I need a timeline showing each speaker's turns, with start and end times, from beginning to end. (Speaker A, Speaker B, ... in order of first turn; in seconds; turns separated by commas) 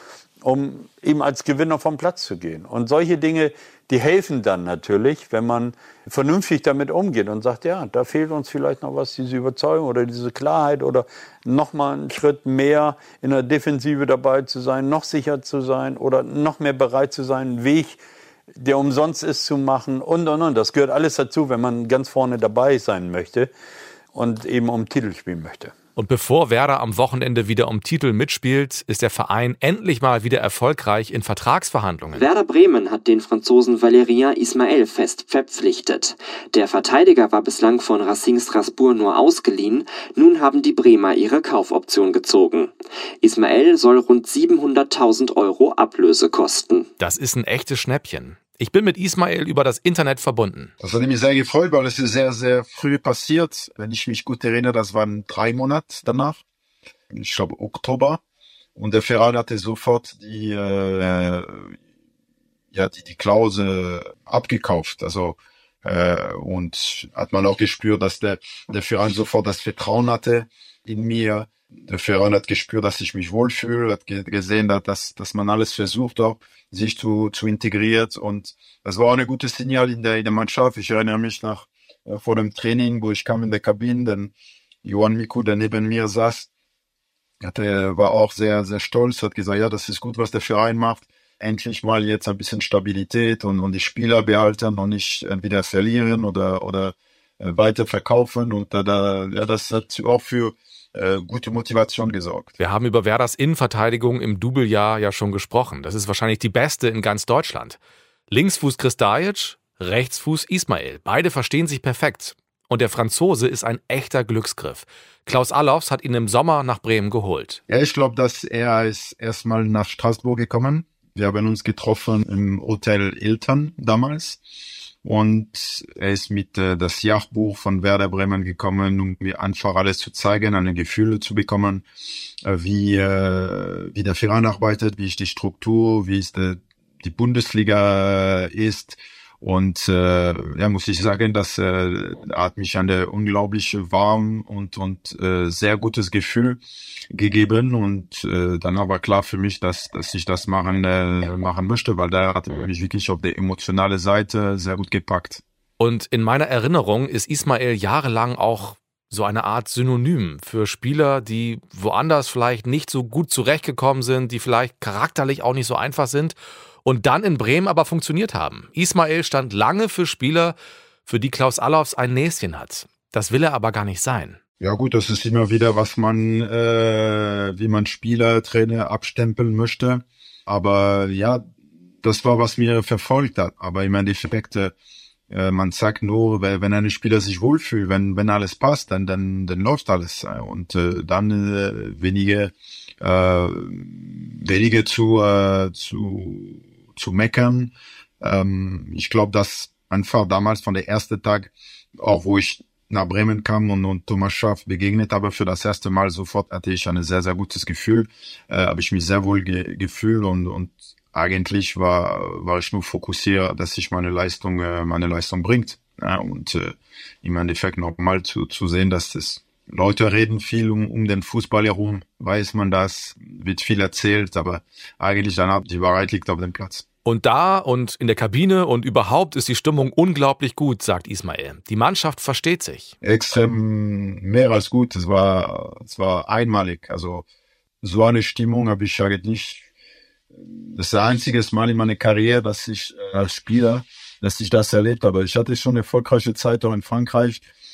Speaker A: 0.4-18.0, Speaker A: 18.6-23.5, Speaker A: 24.1-25.7, Speaker B: 26.0-32.3, Speaker C: 32.1-46.9, Speaker B: 47.0-50.7, Speaker D: 50.8-56.4, Speaker D: 57.1-58.2, Speaker D: 58.8-61.7, Speaker D: 62.7-86.5, Speaker D: 87.4-102.6, Speaker B: 102.6-107.8, Speaker B: 108.3-117.6, Speaker D: 117.7-124.4, Speaker D: 125.0-131.8, Speaker D: 132.4-146.6, Speaker D: 147.1-155.4, Speaker B: 155.8-170.6, Speaker B: 171.1-174.4, Speaker D: 174.6-181.5, Speaker D: 182.0-184.8, Speaker D: 185.3-226.8, Speaker B: 227.1-232.9, Speaker D: 233.0-237.2, Speaker D: 237.8-239.7, Speaker D: 240.4-247.4